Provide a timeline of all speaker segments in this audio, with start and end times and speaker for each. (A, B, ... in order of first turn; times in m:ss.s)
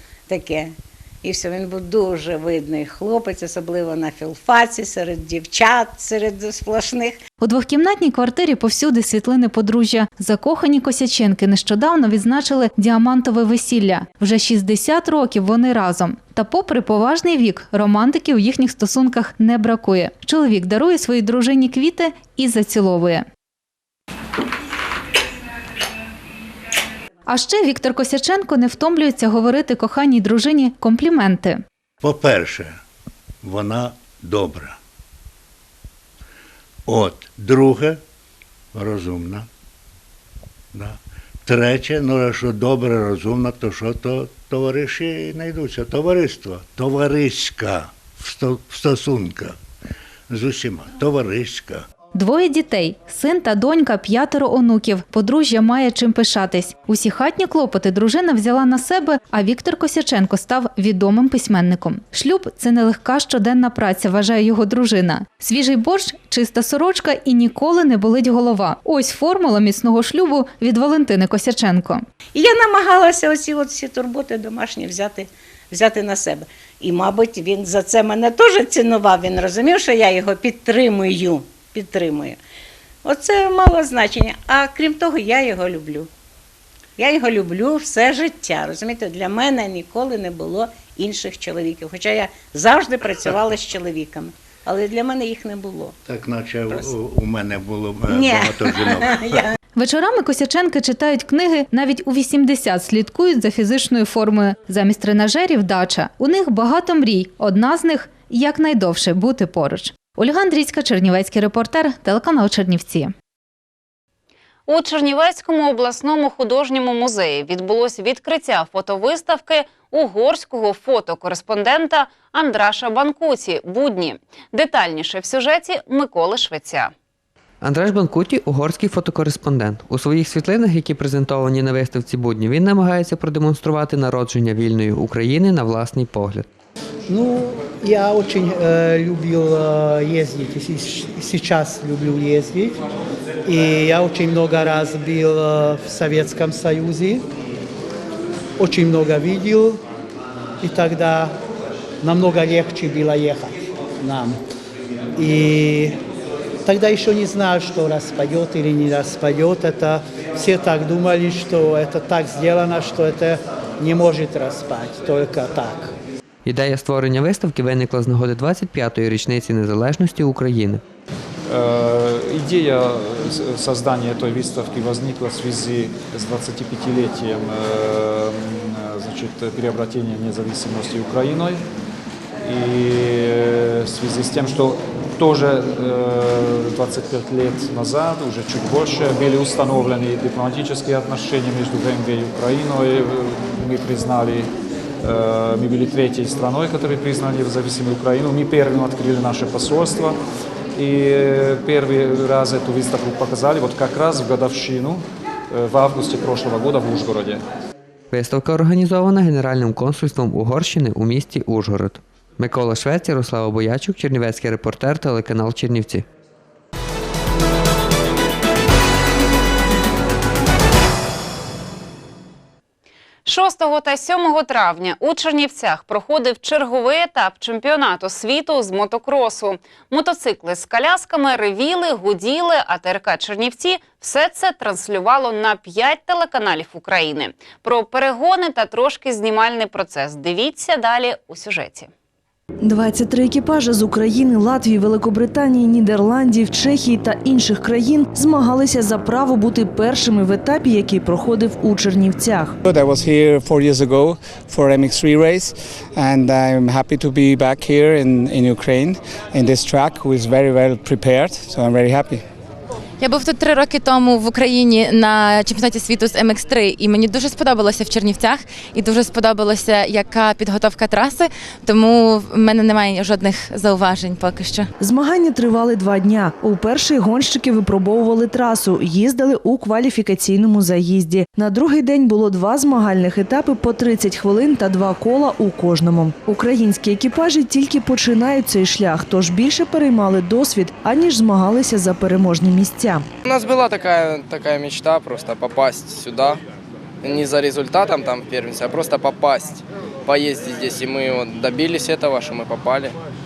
0:00.3-0:07.2 A
0:07.4-0:23.2 B
0:27.3-0:31.6 B
0:32.0-0:32.8 C
0:33.4-0:34.8 C
0:36.9-0:38.0 C
0:38.7-0:39.4 C
0:40.7-0:49.6 C
0:50.3-0:51.8 C
0:52.1-1:12.0 B
1:12.3-1:22.4 A
1:23.0-1:26.1 A
1:27.0-1:35.9 A
1:36.0-1:39.4 C
1:38.1-1:39.5 A
1:39.8-1:53.1 B
1:54.7-2:06.9 D
2:07.6-2:16.5 E
2:17.1-2:22.8 F
2:23.4-2:27.3 F
2:28.6-2:29.8 F
2:30.6-2:31.4 F
2:32.0-2:34.4 F
2:35.2-2:36.0 F
2:36.6-2:45.9 F
2:46.4-2:50.8 E
2:51.5-3:01.6 G
3:02.4-3:14.5 G
3:15.0-3:20.2 G
3:20.8-3:27.4 G
3:28.1-3:36.0 E
3:43.2-4:01.9 D
4:02.6-4:12.6 H
4:12.6-4:22.2 I
4:23.0-4:34.7 J
4:34.8-4:53.1 H
4:53.2-4:56.4 K
4:57.0-5:03.0 K